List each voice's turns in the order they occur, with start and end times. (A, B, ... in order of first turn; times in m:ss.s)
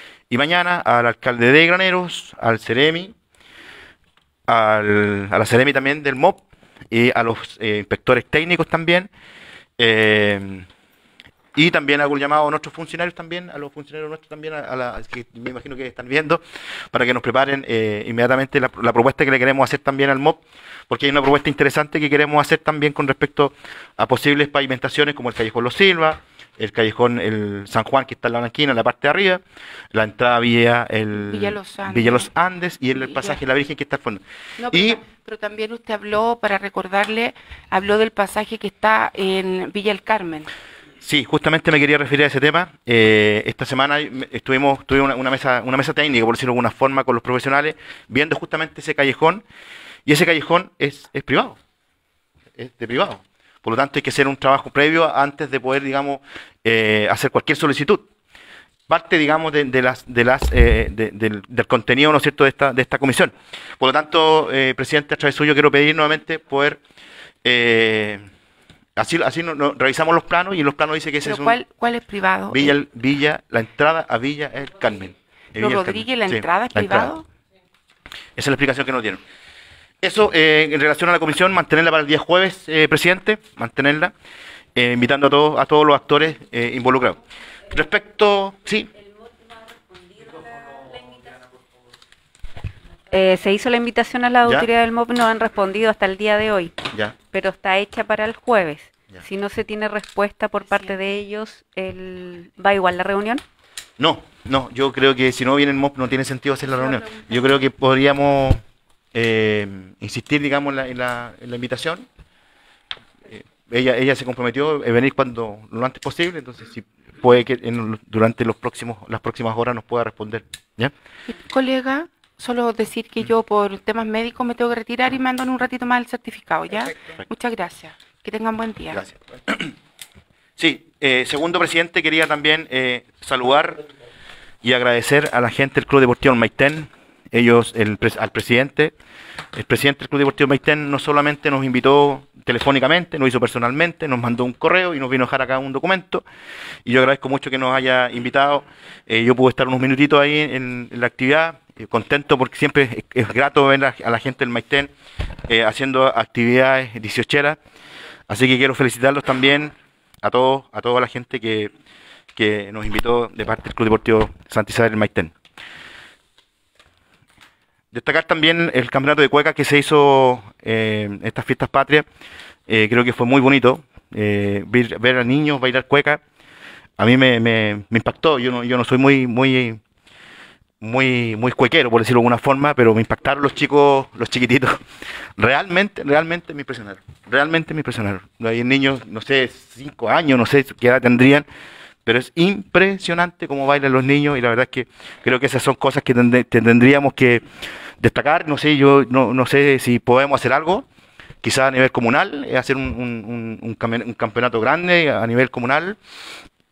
0:00.3-0:03.2 A
0:04.5-0:09.1 A
0:09.8-0:10.7 A
0:11.5-0:29.4 A
0:29.9-0:35.0 A
0:31.2-0:32.3 B
0:32.9-0:33.4 B
0:34.6-0:40.5 B
0:41.0-0:49.4 A
0:50.1-0:51.6 A
0:52.6-0:58.0 A
0:58.9-1:06.8 A
1:07.4-1:08.3 A
1:09.0-1:11.6 A
1:11.2-1:12.8 B
1:12.5-1:17.1 A
1:15.6-1:17.3 B
1:18.4-1:19.2 A
1:20.0-1:24.1 A
1:24.8-1:27.2 A
1:27.7-1:28.9 A
1:33.1-1:43.4 C
1:44.0-1:48.6 A
1:49.1-1:52.1 A
1:53.3-2:00.9 A
2:01.3-2:09.0 B
2:08.9-2:09.7 A
2:10.6-2:13.8 A
2:14.6-2:18.9 A
2:19.6-2:26.2 A
2:26.8-2:34.9 A
2:35.5-2:37.6 A
2:38.3-2:41.7 A
2:42.4-2:45.3 A
2:47.9-2:52.1 A
2:52.7-2:56.2 A
2:57.0-2:59.8 A
3:00.8-3:04.8 A
3:05.4-3:11.5 A
3:12.0-3:17.4 A
3:18.0-3:20.9 A
3:21.4-3:26.0 A